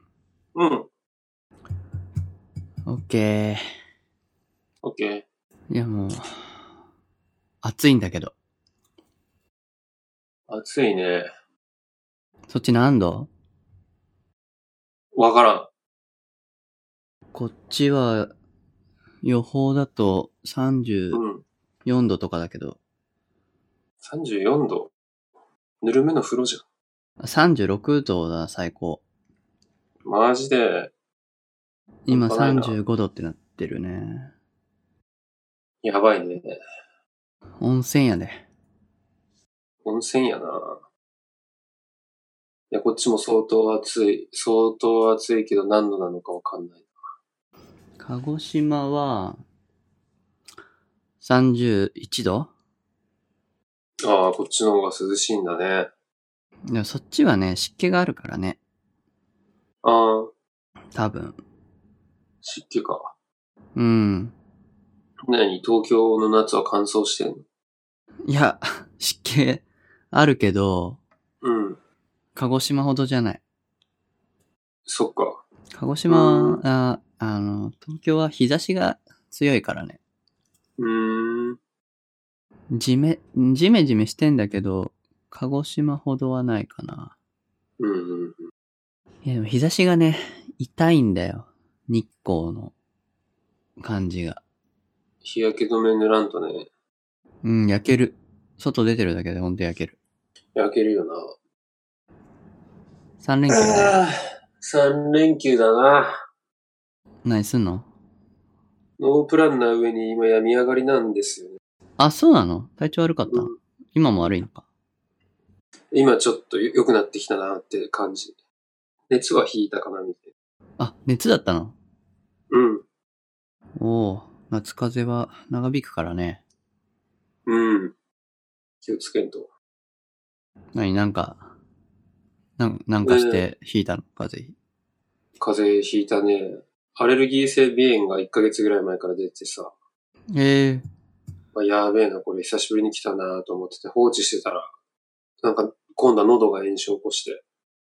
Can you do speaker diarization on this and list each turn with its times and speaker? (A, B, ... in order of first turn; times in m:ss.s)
0:00.6-0:00.9 A
0:02.9-0:03.6 B
0:04.8-0:05.2 A
0:05.7-0:06.6 B
0:07.6-0:08.3 B
0:10.5-0:11.3 A
0:12.5-0:13.3 B
0:15.2-0:15.7 A
0:17.3-0:18.3 B
0:19.2-0:21.2 B
0:21.1-0:21.4 A
0:21.9-0:22.8 B
0:24.0-0:24.9 A
0:25.8-0:26.6 A
0:27.2-0:29.0 B
0:30.0-0:30.9 A
0:32.1-0:34.3 B
0:32.1-0:32.8 A
0:35.8-0:36.6 A
0:37.6-0:38.4 B
0:39.8-0:40.8 A
0:42.7-0:46.9 A
0:48.0-0:49.4 B
0:51.2-0:52.5 B
0:54.0-0:55.9 A
0:56.7-0:58.6 B
0:59.8-1:00.3 A
1:01.0-1:01.4 B
1:02.4-1:03.1 A
1:03.8-1:04.4 B
1:05.3-1:07.4 A
1:08.3-1:11.0 B
1:11.4-1:11.8 A
1:12.4-1:13.4 B
1:14.9-1:15.4 A
1:15.8-1:20.0 B
1:16.1-1:16.6 A
1:20.8-1:21.6 A
1:22.7-1:27.2 B
1:27.8-1:28.5 A
1:29.2-1:32.7 B
1:33.8-1:34.4 B
1:35.2-1:36.7 A
1:37.4-1:40.0 B
1:40.6-1:41.3 A
1:43.2-1:44.0 B
1:43.5-1:46.2 A
1:47.2-1:47.9 B
1:49.0-1:51.6 A
1:52.0-1:54.7 B
1:53.3-1:53.6 A
1:55.9-1:58.4 A
1:59.1-2:00.3 A
2:00.8-2:01.8 B
2:02.5-2:02.8 A
2:03.8-2:06.4 B
2:07.5-2:08.0 A
2:08.8-2:09.5 A
2:10.8-2:11.4 B
2:12.6-2:14.6 B
2:13.0-2:13.4 A
2:15.4-2:19.7 A
2:20.3-2:20.8 B
2:21.5-2:24.7 A
2:25.4-2:27.4 A